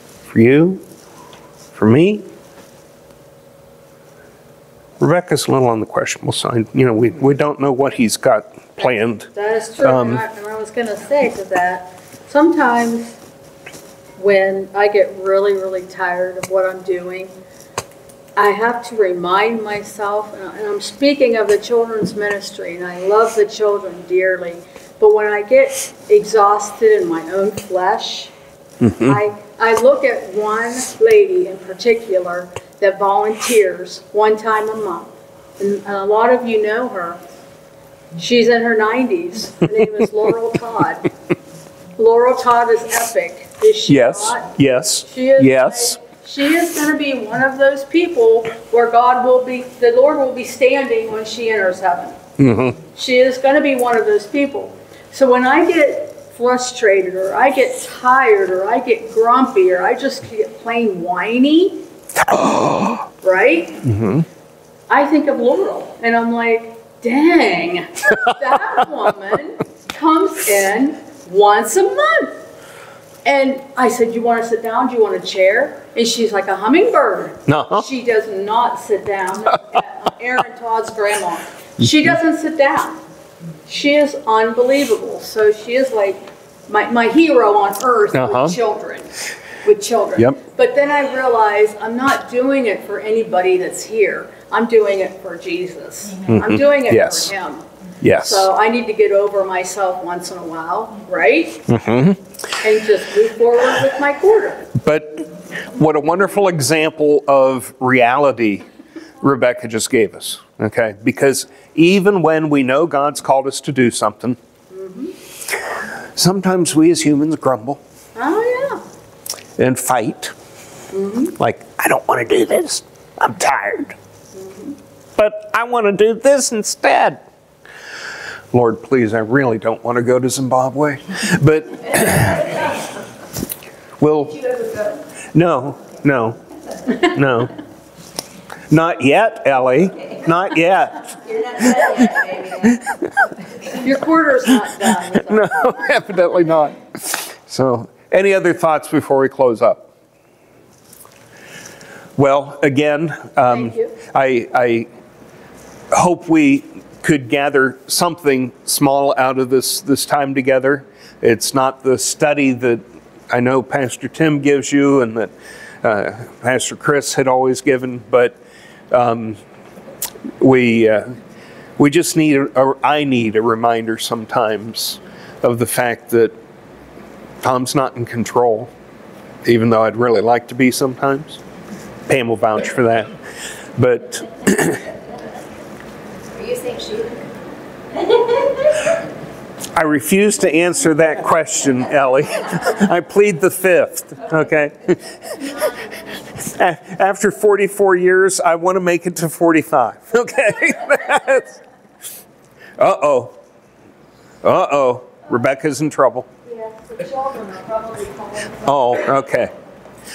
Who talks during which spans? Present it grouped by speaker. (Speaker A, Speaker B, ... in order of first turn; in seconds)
Speaker A: 0.3-0.8, 1.7-2.3, 5.0-9.3, 9.8-10.2, 28.8-29.2, 43.9-46.0, 52.4-52.8, 62.3-63.0, 63.8-64.2, 77.5-77.8, 88.1-88.6, 96.3-97.3, 98.0-98.5, 101.7-102.2, 104.8-108.7, 109.2-114.4, 116.2-117.8, 119.6-120.3, 121.4-124.0, 125.2-127.2, 128.5-132.6, 134.0-134.4, 135.3-136.4, 137.0-137.6, 138.7-141.1, 145.1-149.9, 152.2-154.9, 155.9-165.3, 165.8-168.4, 168.9-169.4, 170.4-171.1, 171.8-176.3, 177.4-178.7, 179.4-181.4, 182.1-183.2, 183.8-184.9, 189.8-195.6, 196.4-201.6, 202.8-203.4, 204.4-206.3, 208.6-209.5
Speaker B: 8.8-13.1, 14.2-17.3, 18.4-28.3, 29.0-37.2, 38.2-41.1, 42.0-44.5, 45.1-52.2, 52.9-61.8, 63.2-63.8, 64.9-72.4, 73.2-83.0, 83.7-89.1, 89.6-97.6, 98.2-101.7, 102.6-104.7, 114.7-115.1, 118.2-118.8, 120.9-121.3, 124.3-124.7, 143.7-145.6, 153.5-153.9, 206.5-208.5
Speaker C: 134.3-135.0, 141.1-142.8, 186.3-187.3, 188.1-188.7